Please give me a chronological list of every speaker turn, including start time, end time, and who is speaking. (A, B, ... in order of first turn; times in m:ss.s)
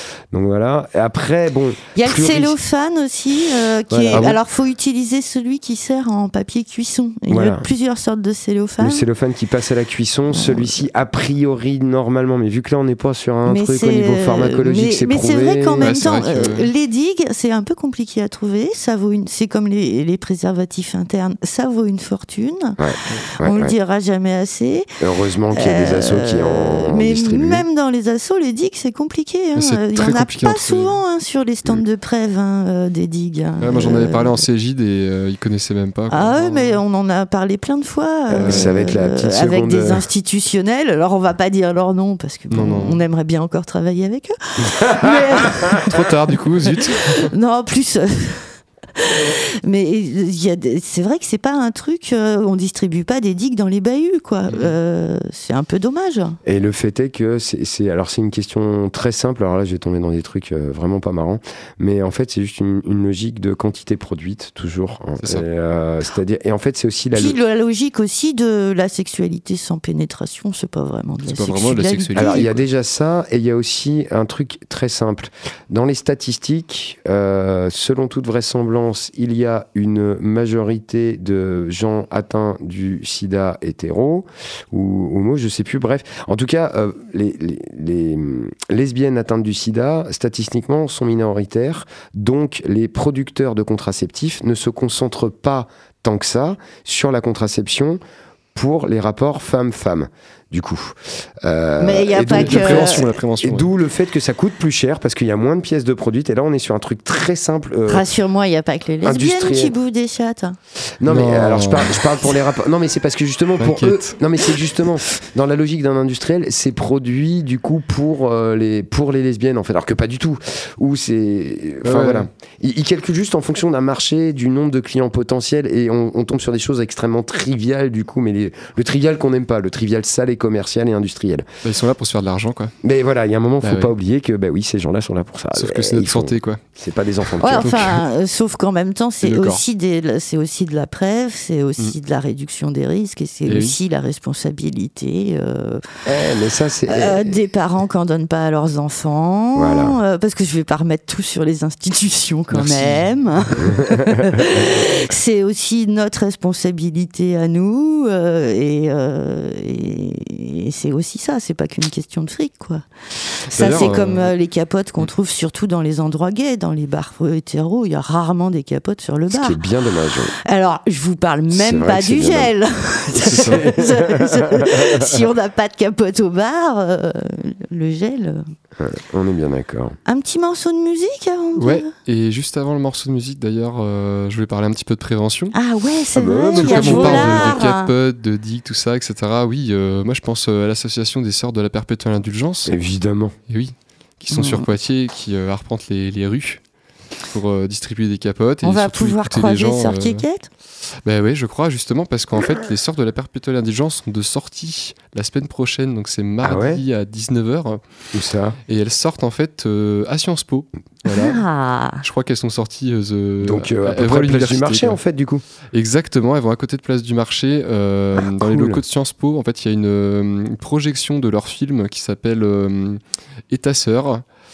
0:00.3-0:02.6 A
0:01.9-0:09.0 B
0:03.9-0:04.4 A
0:04.1-0:04.4 C
0:07.3-0:07.7 A
0:08.8-0:15.9 A
0:10.3-0:10.7 B
0:13.5-0:22.8 B
0:15.8-0:16.7 C
0:22.8-0:23.7 A
0:23.4-0:24.9 B
0:25.0-0:27.6 A
0:25.5-0:34.4 B
0:29.6-0:31.0 C
0:33.6-0:36.8 C
0:36.1-0:45.9 B
0:38.3-0:40.0 A
0:38.4-0:38.7 C
0:42.5-0:43.0 C
0:45.8-0:47.3 C
0:47.1-0:56.4 B
0:54.5-0:54.7 C
0:56.4-1:07.4 A
1:07.1-1:12.5 B
1:11.2-1:12.6 C
1:12.1-1:38.0 A
1:38.5-1:48.1 A
1:41.8-1:43.0 B
1:42.3-1:43.7 C
1:47.9-1:50.6 B
1:49.0-1:49.7 A
1:51.0-2:11.5 A
1:51.1-1:52.0 C
1:53.6-1:54.2 C
2:01.8-2:02.3 C
2:11.6-2:12.7 C
2:12.8-2:17.9 A
2:13.6-2:13.9 C
2:15.5-2:16.6 C
2:17.2-2:18.0 C
2:17.4-2:25.8 B
2:19.2-2:19.6 C
2:23.5-2:23.7 C
2:26.0-2:27.4 A
2:26.9-2:49.6 B
2:29.5-2:30.0 A
2:32.5-2:33.0 C
2:33.6-2:34.1 A
2:43.5-2:44.3 C
2:49.3-2:50.3 A
2:50.4-2:58.4 B
2:51.5-2:52.5 A
2:53.2-2:53.6 C
2:53.3-2:55.2 A
2:58.8-3:00.0 A
3:00.0-3:01.9 B
3:01.6-3:05.5 C
3:05.5-3:07.9 B
3:06.1-3:07.6 A
3:06.5-3:12.7 C
3:12.6-3:13.3 A
3:13.5-3:16.6 C
3:14.3-3:14.7 B
3:17.2-3:20.2 C
3:18.6-3:20.5 B
3:21.0-3:28.1 C
3:26.4-3:26.8 A
3:28.1-3:28.6 A
3:28.7-3:31.4 C
3:31.1-3:32.0 B
3:32.0-3:35.0 C
3:33.4-3:35.4 A
3:35.7-3:44.2 C
3:38.2-3:38.8 A